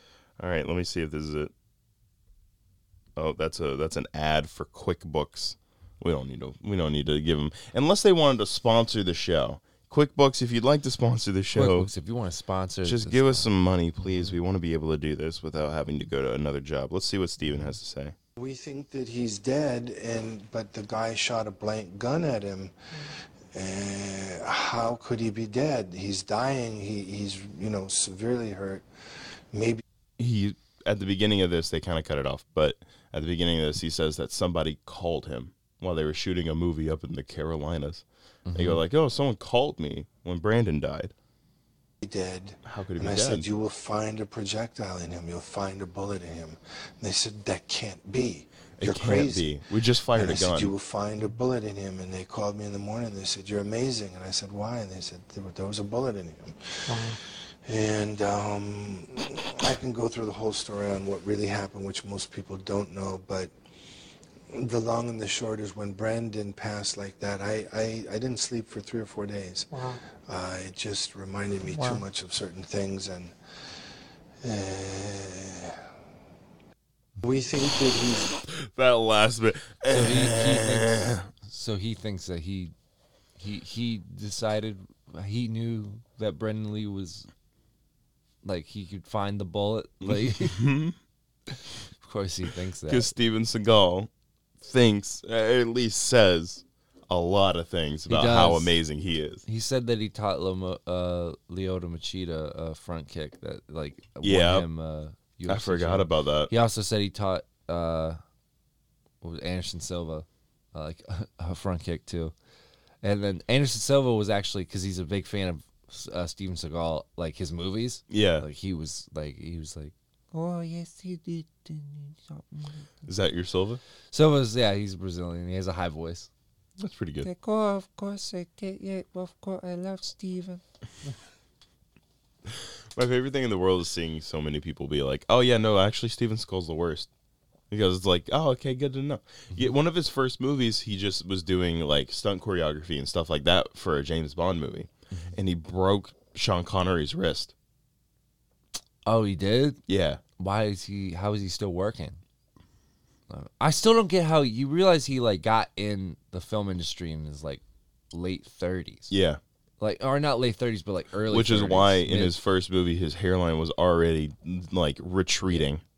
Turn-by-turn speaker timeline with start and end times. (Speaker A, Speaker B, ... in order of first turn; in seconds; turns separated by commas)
Speaker A: 0.4-1.5, Speaker A: 3.1-11.9, Speaker B: 11.5-13.5, Speaker A: 12.8-18.1, Speaker C: 18.4-22.7, Speaker C: 23.5-28.8, Speaker C: 29.5-29.8, Speaker A: 30.2-41.1, Speaker B: 38.5-38.8, Speaker C: 42.0-49.6, Speaker A: 42.6-43.4, Speaker A: 48.8-50.7, Speaker C: 50.1-63.5, Speaker C: 64.5-73.3, Speaker C: 74.4-75.8, Speaker C: 77.2-78.4, Speaker A: 78.4-81.3, Speaker B: 79.9-82.7, Speaker B: 83.4-87.3, Speaker B: 88.4-90.6, Speaker A: 90.0-91.0, Speaker B: 92.0-93.1, Speaker A: 92.9-99.4, Speaker B: 98.1-98.8, Speaker B: 99.4-108.2, Speaker A: 104.2-104.7, Speaker A: 105.5-106.5, Speaker B: 109.2-112.3, Speaker B: 113.0-122.9, Speaker A: 118.1-118.5, Speaker A: 123.1-123.8, Speaker B: 124.1-126.3, Speaker A: 126.8-127.3, Speaker B: 127.2-130.6, Speaker A: 132.5-137.1, Speaker A: 137.7-147.5, Speaker B: 145.1-145.3, Speaker B: 149.1-149.8, Speaker A: 149.9-150.2, Speaker B: 150.4-152.2, Speaker B: 153.3-159.1, Speaker A: 159.1-159.4, Speaker B: 159.8-162.3, Speaker A: 161.3-165.8